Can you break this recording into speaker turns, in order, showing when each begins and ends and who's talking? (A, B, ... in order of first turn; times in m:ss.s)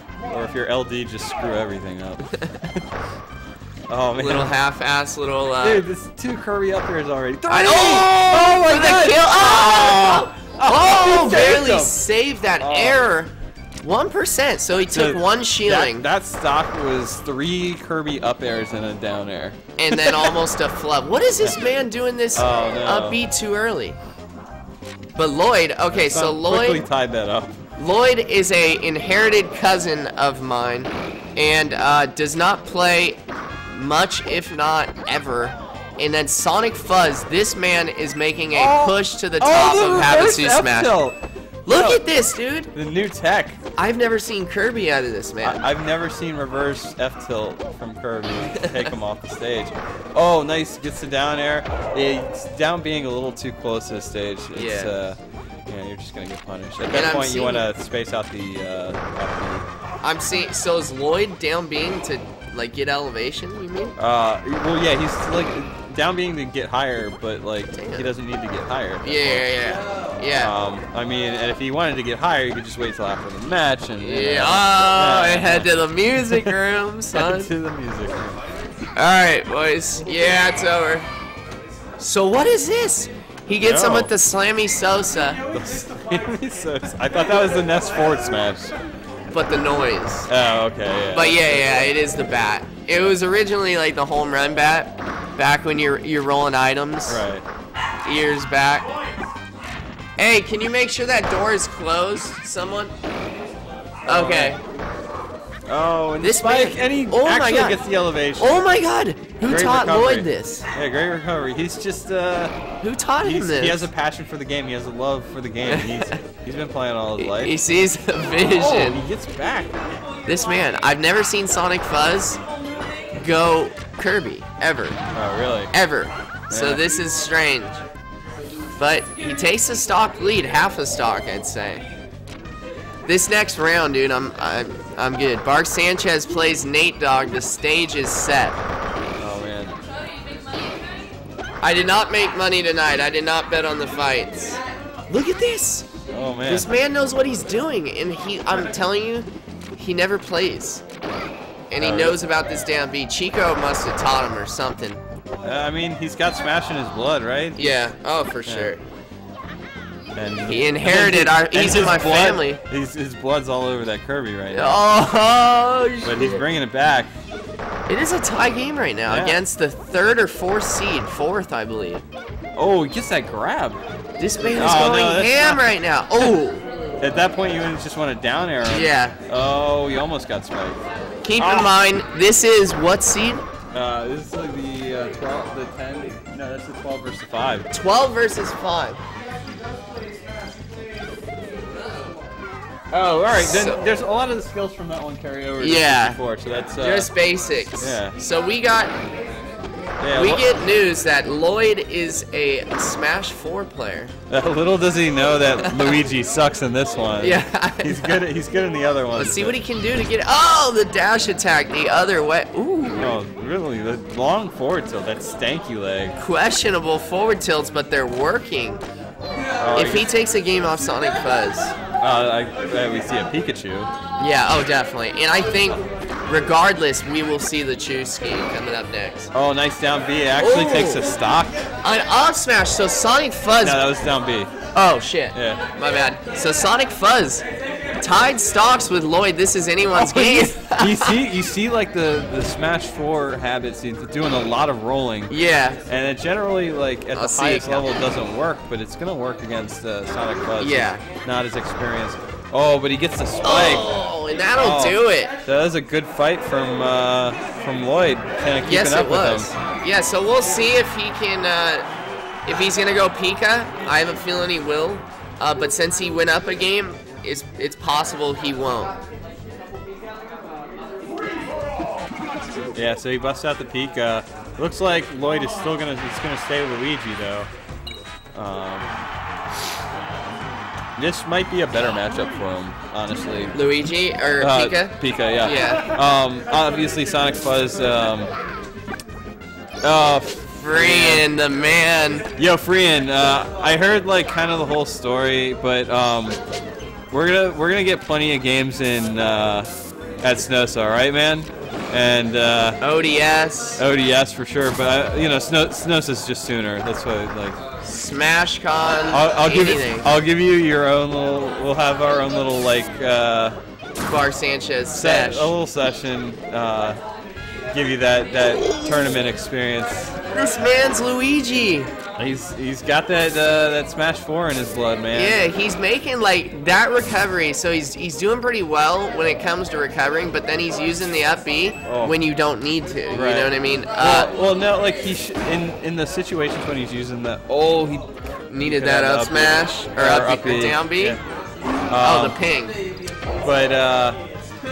0:00.3-0:02.7 A
0:03.9-0:04.5 A
0:04.2-0:05.8 B
0:05.6-0:12.0 A
0:07.5-0:16.1 B
0:12.6-0:13.1 A
0:14.9-0:20.3 A
0:19.8-0:24.0 B
0:22.4-0:23.2 A
0:25.2-0:26.8 B
0:25.9-0:27.6 A
0:27.8-0:41.0 B
0:38.5-0:41.2 A
0:41.7-0:42.7 B
0:41.7-0:42.0 A
0:42.7-0:43.6 A
0:43.8-0:45.6 B
0:45.4-0:59.6 A
0:54.5-0:54.9 B
0:56.8-0:57.6 B
1:00.0-1:03.9 B
1:04.0-1:09.5 A
1:07.7-1:08.1 B
1:09.0-1:10.5 B
1:10.4-1:16.5 A
1:14.0-1:17.5 B
1:17.1-1:18.4 A
1:19.0-1:21.1 B
1:22.0-1:25.4 B
1:23.6-1:24.1 A
1:25.5-1:28.7 A
1:29.3-1:30.3 B
1:30.3-1:31.8 A
1:31.1-1:37.2 B
1:37.1-1:37.4 A
1:38.0-1:38.9 B
1:40.2-1:42.9 B
1:44.1-1:44.6 A
1:44.1-1:44.6 B
1:45.7-1:48.6 A
1:46.2-1:47.8 B
1:48.4-1:50.7 B
1:49.4-1:52.6 A
1:52.8-1:53.9 B
1:53.2-1:57.5 A
1:55.7-1:56.2 B
1:57.2-1:59.0 B
1:58.4-1:59.7 A
2:00.3-2:02.4 B
2:03.2-2:05.0 B
2:05.2-2:05.7 A
2:05.7-2:07.8 B
2:06.5-2:06.8 A
2:08.8-2:11.8 B
2:13.1-2:18.6 B
2:19.2-2:19.8 A
2:21.6-2:25.9 B
2:26.1-2:26.7 A
2:26.5-2:30.8 B
2:31.7-2:35.0 B
2:31.8-2:32.2 A
2:35.4-2:37.8 A
2:37.6-2:38.8 B
2:38.5-2:38.7 A
2:40.2-2:44.8 A
2:40.5-2:42.6 B
2:44.5-2:46.4 B
2:46.0-2:47.1 A
2:47.9-2:52.0 B
2:49.1-2:49.4 A
2:52.6-2:53.8 A
2:54.2-2:56.6 B
2:54.5-2:55.6 A
2:57.0-3:00.8 A
2:58.6-2:59.2 B
3:01.2-3:03.4 B
3:01.4-3:01.7 A
3:03.7-3:07.7 A
3:07.7-3:09.0 B
3:12.9-3:17.1 A
3:13.3-3:13.8 B
3:15.6-3:16.2 B
3:16.8-3:19.0 B
3:17.8-3:18.2 A
3:20.0-3:20.5 A
3:20.1-3:24.1 B
3:24.3-3:29.6 A
3:25.6-3:26.0 B
3:27.2-3:28.2 B
3:29.2-3:33.1 B
3:33.0-3:36.2 A
3:36.2-3:38.8 B
3:39.6-3:40.1 A
3:39.7-3:41.7 B
3:42.0-3:43.9 A
3:44.2-3:49.3 B
3:49.3-3:51.5 A
3:50.4-3:51.1 B
3:51.8-3:53.8 B
3:53.6-3:54.5 A
3:54.7-3:57.4 B
3:55.3-3:55.6 A
3:58.0-4:01.1 B
4:00.0-4:05.3 A
4:05.3-4:05.8 B
4:05.9-4:13.9 A
4:07.1-4:07.9 B
4:10.6-4:11.0 B
4:13.4-4:15.3 B
4:14.6-4:19.5 A
4:18.6-4:21.9 B
4:22.5-4:29.0 B
4:32.7-4:37.5 A
4:38.4-4:38.9 A
4:41.0-4:43.6 A
4:43.5-4:45.8 B
4:44.4-4:48.3 A
4:49.8-4:51.3 A
4:50.6-4:52.3 B
4:52.4-4:56.4 A
4:57.1-4:59.7 A
5:00.2-5:02.8 A
5:02.8-5:03.8 B
5:03.8-5:07.6 A
5:07.8-5:10.1 B
5:09.1-5:13.6 A
5:14.1-5:15.5 B
5:14.9-5:17.0 A
5:17.7-5:20.1 A
5:18.6-5:18.9 B
5:20.3-5:21.9 B
5:22.2-5:25.4 A
5:25.1-5:34.3 B
5:31.9-5:32.2 A
5:33.1-5:38.1 A
5:38.5-5:41.2 B
5:38.6-5:41.2 A
5:41.9-5:42.4 A
5:42.0-5:42.7 B
5:43.4-5:44.2 A